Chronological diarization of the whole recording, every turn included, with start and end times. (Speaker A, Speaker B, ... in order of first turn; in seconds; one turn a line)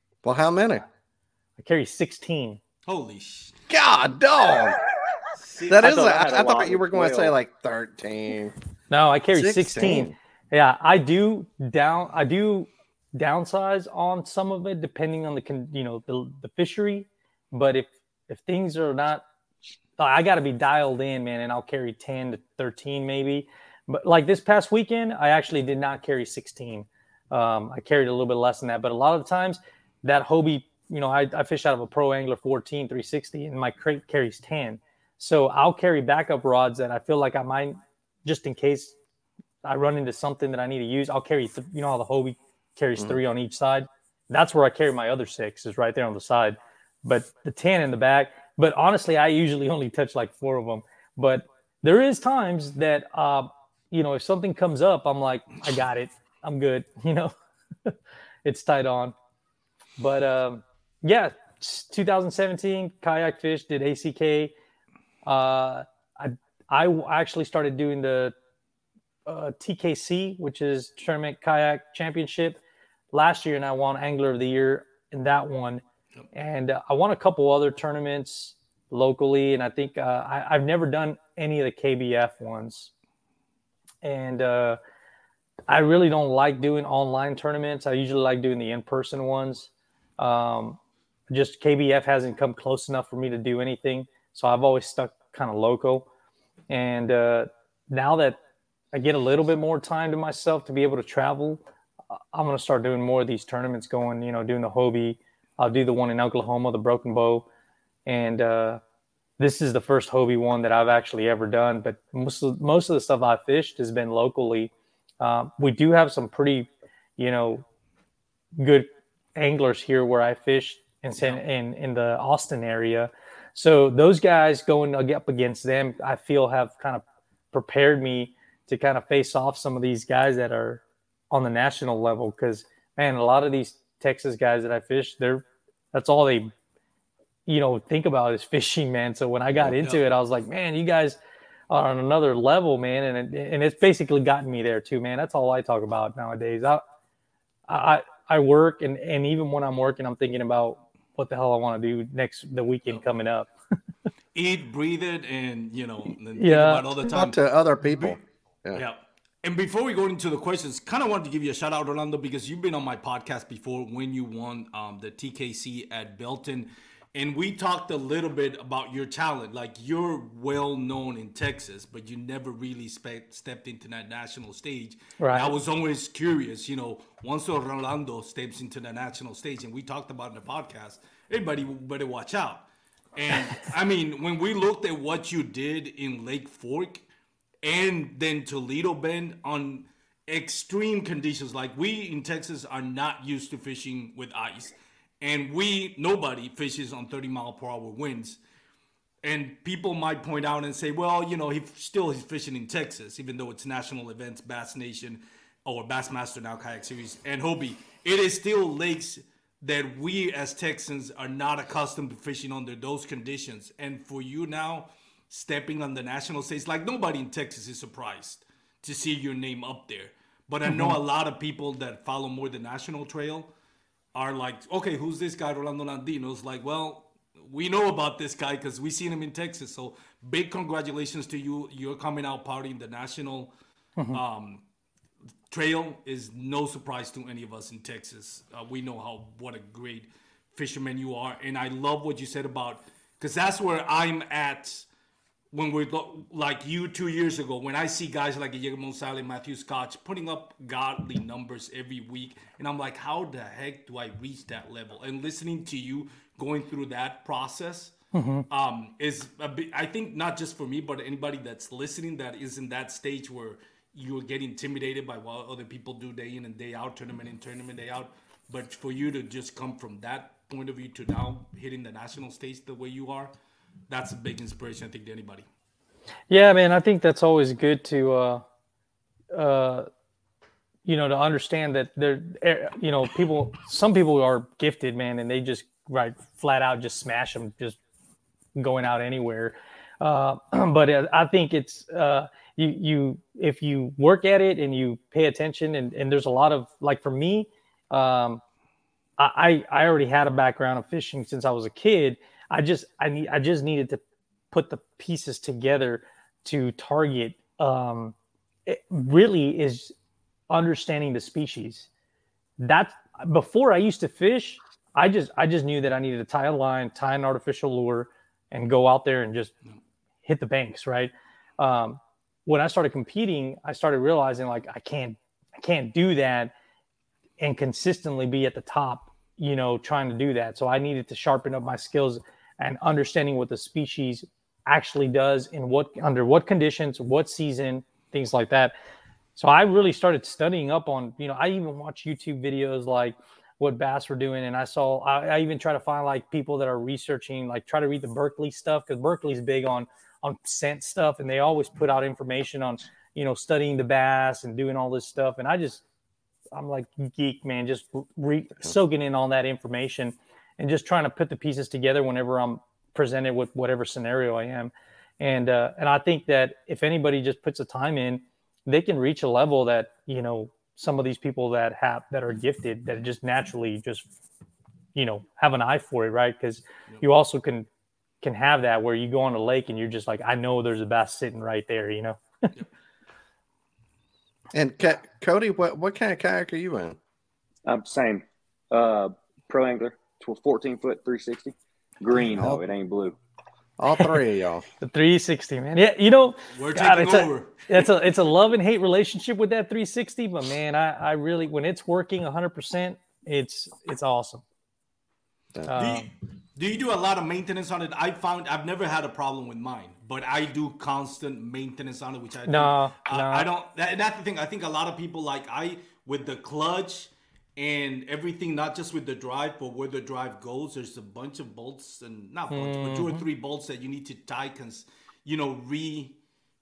Speaker A: 0.2-0.8
Speaker B: 1.6-2.6
Speaker C: 2.9-3.5
Speaker A: 3.7-4.8
Speaker D: 5.6-7.4
Speaker A: 5.7-8.5
Speaker B: 8.9-19.2
Speaker A: 9.3-10.1
Speaker B: 20.0-38.9
Speaker B: 39.6-57.3
Speaker B: 57.9-59.1
Speaker B: 60.0-64.5
Speaker B: 65.2-68.3
Speaker B: 69.2-72.6
Speaker B: 73.1-82.9
Speaker B: 84.0-84.8
Speaker B: 85.7-90.8
Speaker B: 91.3-96.1
Speaker B: 96.7-98.4
Speaker B: 98.9-101.6
Speaker B: 102.3-107.5
Speaker B: 108.0-108.8
Speaker B: 109.4-117.6
Speaker B: 118.6-136.5
Speaker B: 137.5-141.2
Speaker B: 141.7-146.8
Speaker B: 147.7-153.5
Speaker C: 154.3-158.2
Speaker B: 156.4-156.8
Speaker A: 157.0-158.8
Speaker C: 158.7-187.0
Speaker B: 175.2-175.5
Speaker C: 187.6-198.4
Speaker C: 199.2-223.5
Speaker B: 220.7-221.0
Speaker C: 224.1-233.5
Speaker C: 234.1-234.6
Speaker C: 235.5-244.8
Speaker C: 245.5-257.9
Speaker B: 258.1-258.5
Speaker C: 258.5-273.3
Speaker C: 273.9-275.5
Speaker B: 276.3-278.4
Speaker B: 279.3-279.9
Speaker B: 280.9-287.8
Speaker B: 288.6-298.4
Speaker B: 299.2-304.0
Speaker B: 304.5-308.1
Speaker B: 308.7-309.9
Speaker B: 310.5-311.9
Speaker B: 312.6-319.5
Speaker B: 320.2-326.5
Speaker B: 327.4-338.8
Speaker B: 339.4-355.8
Speaker B: 356.5-374.1
Speaker B: 374.9-377.7
Speaker B: 378.2-382.2
Speaker A: 384.5-387.0
Speaker D: 387.7-393.2
Speaker A: 392.1-392.6
Speaker A: 393.8-394.6
Speaker B: 394.8-404.4
Speaker C: 396.5-397.6
Speaker B: 405.7-406.1
Speaker C: 405.8-426.2
Speaker B: 412.5-413.5
Speaker B: 422.5-423.2